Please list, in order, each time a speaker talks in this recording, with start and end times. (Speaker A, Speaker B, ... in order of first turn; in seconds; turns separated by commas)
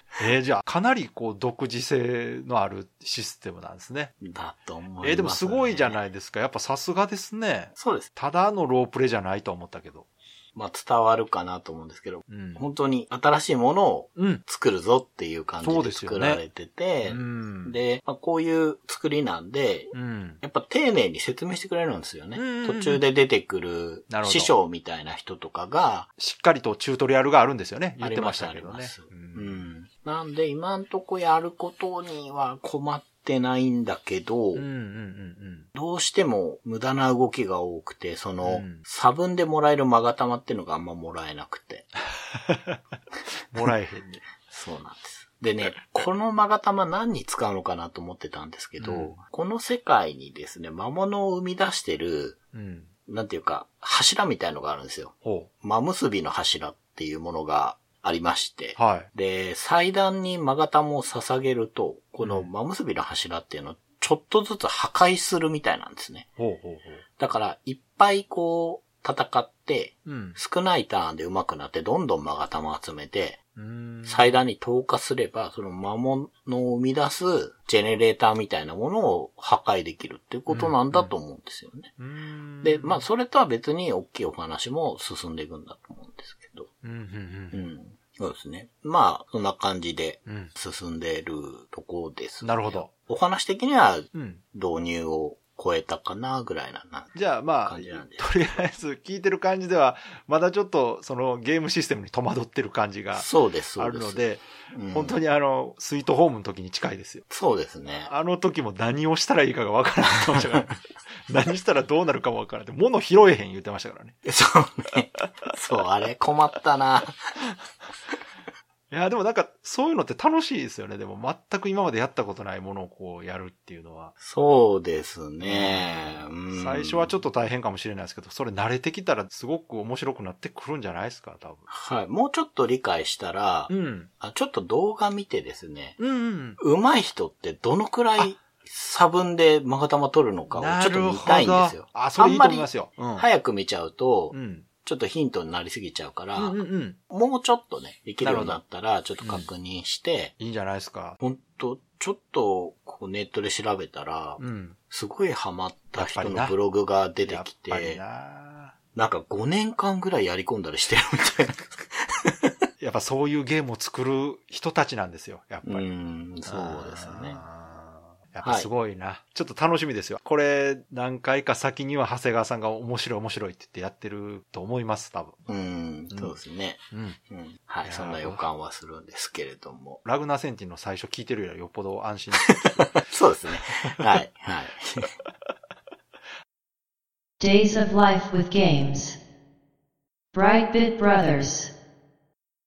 Speaker A: 0.2-4.2, Speaker B: 4.2-6.0, Speaker A: 5.0-10.1, Speaker B: 7.8-8.1, Speaker B: 10.6-26.1, Speaker A: 12.3-12.6, Speaker A: 14.2-14.4, Speaker A: 15.6-16.4, Speaker A: 17.1-17.8, Speaker A: 19.9-20.4, Speaker A: 22.4-23.0, Speaker A: 24.1-24.5, Speaker A: 26.2-29.6, Speaker B: 28.0-34.7, Speaker A: 34.5-35.7, Speaker B: 35.7-41.9, Speaker A: 38.4-38.8, Speaker A: 42.3-42.8, Speaker A: 43.5-44.2, Speaker B: 44.5-52.4, Speaker A: 48.8-49.2, Speaker A: 52.5-52.9, Speaker B: 53.1-66.3, Speaker A: 55.2-55.5, Speaker A: 58.8-59.1, Speaker A: 62.2-62.5, Speaker A: 66.4-67.0, Speaker B: 67.2-73.4, Speaker A: 70.0-70.4, Speaker A: 73.6-74.4, Speaker B: 74.0-81.9, Speaker A: 80.5-81.1, Speaker A: 82.0-83.0, Speaker B: 82.6-86.7, Speaker A: 86.8-87.6, Speaker B: 87.5-98.3, Speaker A: 90.3-90.5, Speaker A: 92.4-92.9, Speaker A: 94.1-94.4, Speaker A: 97.1-107.2, Speaker B: 103.1-105.2, Speaker B: 107.3-108.1, Speaker A: 108.1-110.8, Speaker A: 111.3-114.2, Speaker B: 114.2-117.2, Speaker A: 118.9-124.1, Speaker B: 124.2-127.2, Speaker A: 125.4-131.7, Speaker B: 131.7-136.0, Speaker A: 133.7-134.1, Speaker A: 136.0-136.6, Speaker B: 136.6-150.3, Speaker A: 140.5-143.3, Speaker A: 144.3-144.7, Speaker A: 146.4-147.0, Speaker A: 148.2-148.6, Speaker A: 150.4-151.2, Speaker B: 151.2-158.0, Speaker A: 154.4-154.8, Speaker A: 156.0-156.6, Speaker A: 157.3-158.8, Speaker B: 158.9-162.5, Speaker A: 162.8-165.9, Speaker B: 165.6-167.4, Speaker A: 166.5-175.5, Speaker B: 168.4-168.7, Speaker B: 175.5-180.0, Speaker A: 176.9-177.2, Speaker A: 177.8-178.4, Speaker A: 180.0-183.0, Speaker B: 182.5-185.1, Speaker C: 187.4-189.2, Speaker C: 190.3-191.7